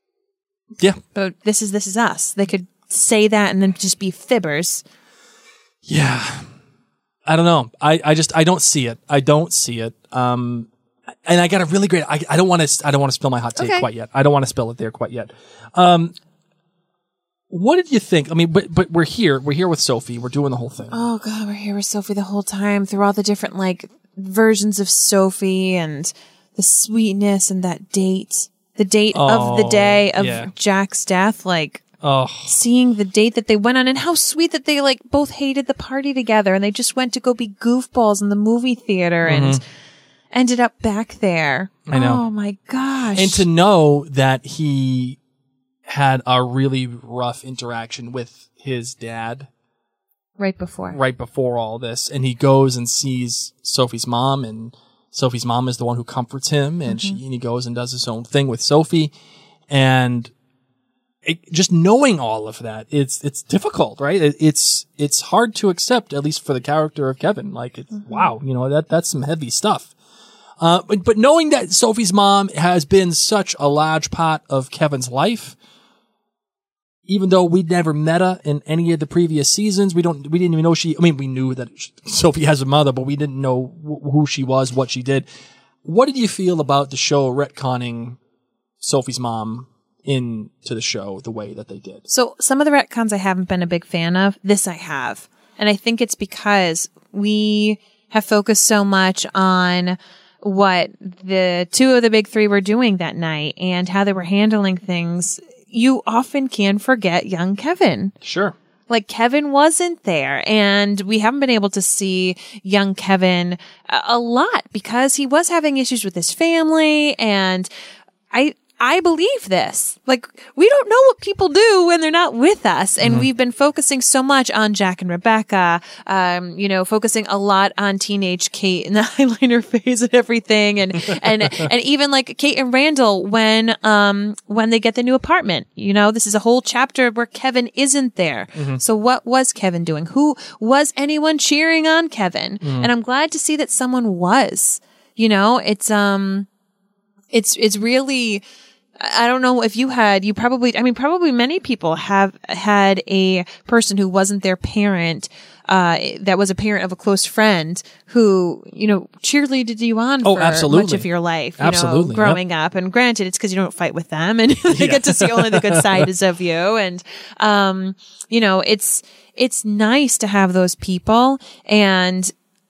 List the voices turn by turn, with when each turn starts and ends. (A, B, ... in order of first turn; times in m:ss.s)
0:01.1-0:04.8 A
0:05.8-0:06.5 B
0:07.3-0:10.7 B
0:11.2-0:16.1 B
0:13.6-0:13.9 A
0:17.5-0:21.0 B
0:20.9-0:31.8 A
0:29.1-0:30.5 B
0:32.0-0:32.5 B
0:32.4-0:39.6 A
0:39.2-0:39.6 B
0:40.3-0:43.4 A
0:41.9-0:42.2 B
0:43.1-0:45.2 B
0:45.9-0:49.5 B
0:50.4-0:51.0 A
0:50.9-0:59.1 B
0:56.9-0:57.2 A
0:59.7-1:00.3 B
1:01.2-1:09.9 B
1:10.6-1:15.6 B
1:17.1-1:25.3 B
1:25.8-1:28.2 B
1:28.8-1:32.1 B
1:32.1-1:48.1 A
1:48.2-1:48.6 B
1:48.9-1:57.7 A
1:58.3-2:26.5 A
2:03.0-2:03.3 B
2:18.6-2:18.8 B
2:22.6-2:22.9 B
2:27.3-2:28.4 A
2:29.0-2:52.3 A
2:40.2-2:41.1 B
2:41.6-2:42.4 B
2:44.7-2:46.1 B